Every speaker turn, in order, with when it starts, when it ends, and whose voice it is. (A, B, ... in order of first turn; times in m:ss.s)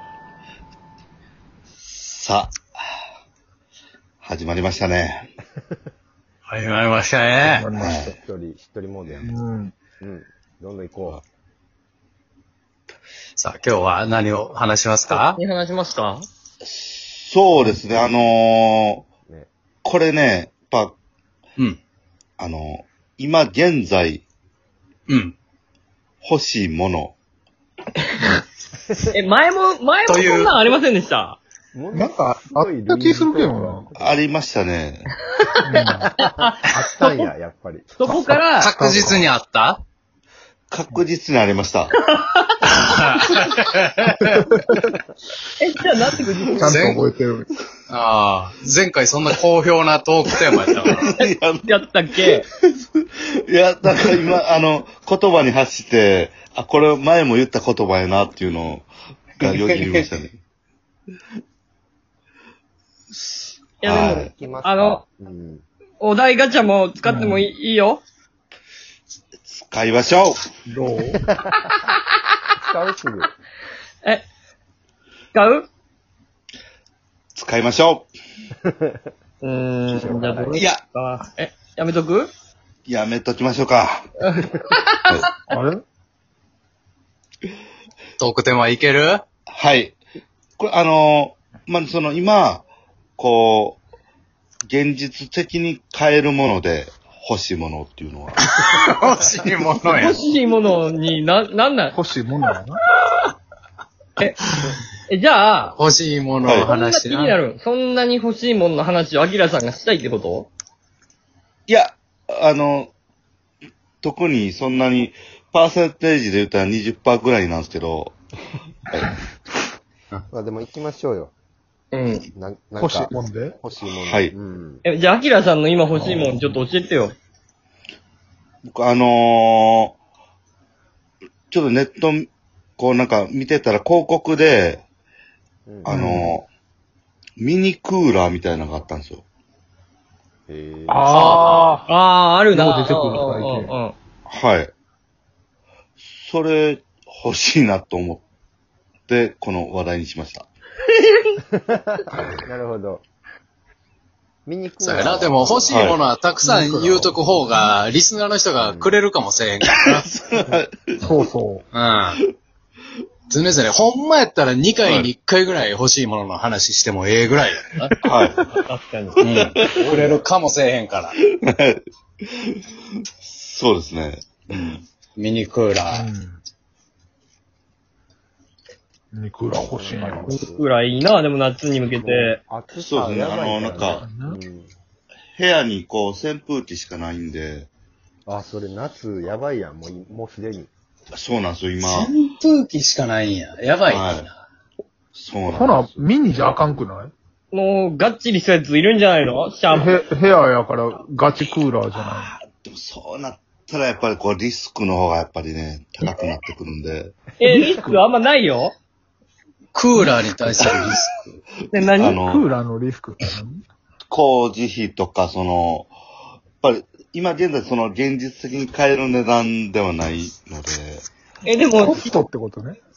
0:01.8-0:02.5 A
0:04.2-0:05.3 A
0:06.5-0:07.7 B
0:07.4-0:08.1 C
0:07.8-0:08.1 A
0:08.0-0:09.3 D
0:09.2-0:09.7 C
0:10.0-0:11.2 D
0:13.4-0:15.4 B
0:15.1-0:16.2 E
0:16.6-0:19.1 A
0:19.8-0:21.0 A
0:22.4-0:24.2 A
0:25.1-0:25.3 B
0:26.2-0:27.2 A
0:29.1-0:31.4 E
0:30.1-0:30.5 B
0:31.7-0:34.2 D
0:31.9-0:33.9 C
0:33.9-0:35.1 A
0:35.6-0:36.1 C
0:35.7-0:37.1 E
0:36.2-0:38.1 D
0:38.0-0:38.7 E
0:38.6-0:39.8 B
0:38.8-0:39.3 C
0:40.7-0:41.9 A
0:42.0-0:42.8 E
0:42.7-0:44.5 B
0:45.6-0:46.5 E
0:46.3-0:46.9 D
0:46.5-0:47.5 C
0:46.6-0:47.0 B
0:47.9-0:51.1 B
0:50.7-0:51.7 A
0:51.6-0:52.5 E
0:52.3-1:00.4 A
0:59.4-1:00.1 B
1:03.1-1:04.3 A
1:03.8-1:05.0 E
1:04.3-1:05.6 D
1:06.0-1:08.0 E
1:07.0-1:07.5 C
1:09.4-1:10.5 A
1:10.7-1:11.2 C
1:11.1-1:11.5 D
1:12.6-1:13.3 D
1:15.3-1:15.6 E
1:17.3-1:18.1 A
1:18.6-1:19.0 D
1:19.4-1:22.3 E
1:19.9-1:20.6 D
1:22.8-1:24.1 A
1:24.2-1:25.3 E
1:25.5-1:25.8 C
1:28.2-1:29.2 B
1:29.5-1:30.0 A
1:30.6-1:32.6 A
1:33.2-1:33.8 A
1:34.7-1:38.5 A
1:38.4-1:40.2 B
1:39.9-1:42.0 E
1:41.9-1:42.8 C
1:45.1-1:45.8 E
1:45.8-1:47.4 B
1:46.4-1:46.7 A
1:46.6-1:50.5 E
1:51.7-1:52.9 A
1:54.0-1:58.2 A
1:58.9-1:59.1 A
2:00.3-2:01.3 D
2:01.9-2:02.3 E
2:02.3-2:04.8 D
2:02.8-2:03.6 C
2:04.0-2:04.3 A
2:04.8-2:07.1 E
2:08.6-2:10.0 A
2:11.5-2:14.8 A
2:15.6-2:16.0 D
2:15.8-2:16.5 A
2:15.9-2:16.4 C
2:17.4-2:19.2 A
2:20.5-2:21.5 D
2:20.9-2:21.8 C
2:21.1-2:21.7 B
2:21.2-2:23.9 E
2:22.5-2:23.7 C
2:24.3-2:24.7 A
2:26.1-2:28.2 A
2:29.1-2:30.5 A
2:31.7-2:33.0 D
2:34.4-2:36.0 D
2:34.8-2:40.1 B
2:35.7-2:36.0 A
2:36.4-2:37.2 C
2:38.6-2:39.0 D
2:39.6-2:41.1 A
2:41.0-2:41.6 C
2:41.7-2:42.2 B
2:43.3-2:47.9 B
2:44.8-2:45.1 A
2:48.0-2:48.5 A
2:48.6-2:49.4 E
2:49.2-2:51.2 B
2:49.2-2:49.6 A
2:49.7-2:50.2 D
2:51.2-2:54.8 A
2:55.2-2:56.1 B
2:55.9-2:56.4 C
2:59.1-3:00.3 C
2:59.6-3:00.6 D
3:00.3-3:02.4 E
3:01.9-3:04.7 D
3:02.8-3:04.1 A
3:03.8-3:04.4 C
3:05.3-3:07.7 A
3:08.2-3:10.7 D
3:11.1-3:12.1 A
3:11.8-3:14.3 B
3:13.9-3:14.3 A
3:15.1-3:16.0 A
3:15.5-3:17.1 C
3:17.5-3:19.9 E
3:19.7-3:22.4 C
3:22.0-3:27.2 A
3:27.4-3:28.7 E
3:27.5-3:28.0 C
3:29.7-3:31.3 B
3:31.7-3:32.2 E
3:31.8-3:32.5 A
3:32.1-3:33.6 C
3:34.1-3:35.9 A
3:36.6-3:41.0 A
3:41.4-3:42.1 E
3:41.8-3:42.8 C